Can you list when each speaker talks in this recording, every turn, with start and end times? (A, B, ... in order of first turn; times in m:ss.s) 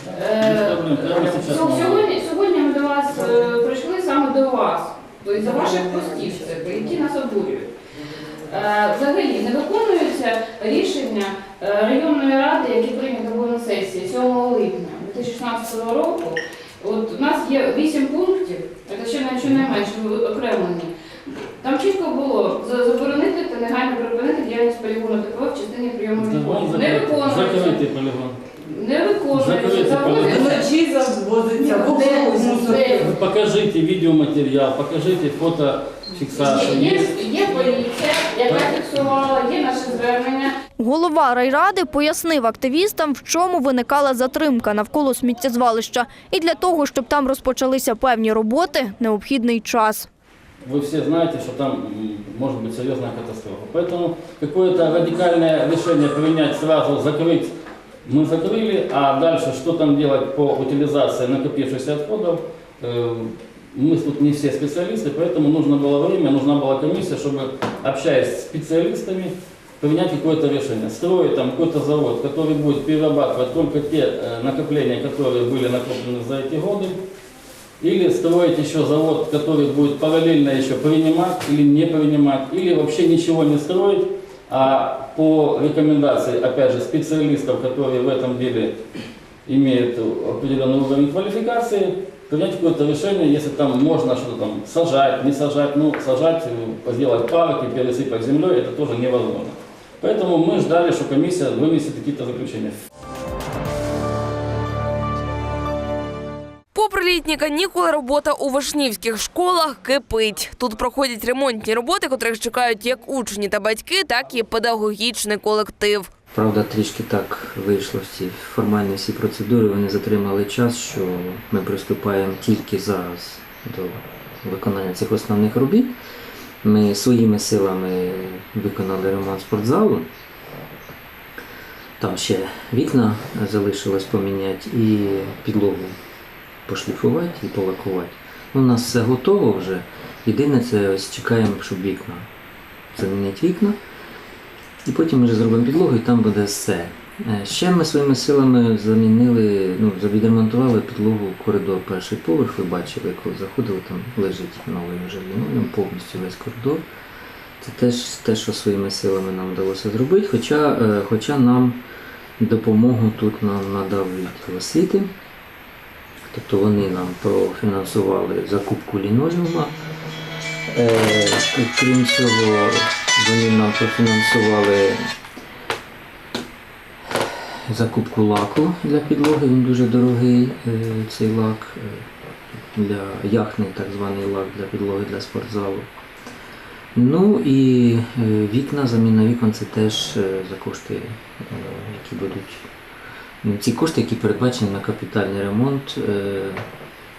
0:00.1-0:02.0 A
0:00.1-0:07.7 B
0:08.5-0:27.8 B
0:26.1-0:28.4 A
0:28.6-0:30.7 B
0:29.3-0:30.6 A
0:30.7-0:32.8 C
0:31.6-0:33.1 B
0:32.9-0:37.7 A
0:36.2-0:40.5 B
0:40.8-0:50.1 D
0:50.6-0:57.5 A
0:58.0-1:17.0 A
1:17.8-1:28.8 A
1:29.4-1:42.7 A
1:46.7-1:56.1 E
1:56.3-2:05.9 F
2:06.6-2:10.1 F
2:12.0-2:16.0 F
2:16.6-2:22.3 F
2:22.9-2:23.8 F
2:24.8-2:36.8 F
2:37.6-2:41.8 F
2:42.4-2:45.1 F
2:46.3-2:49.7 F
2:50.7-2:55.0 F
2:57.6-3:06.0 F
3:06.9-3:12.7 F
3:13.4-3:16.6 F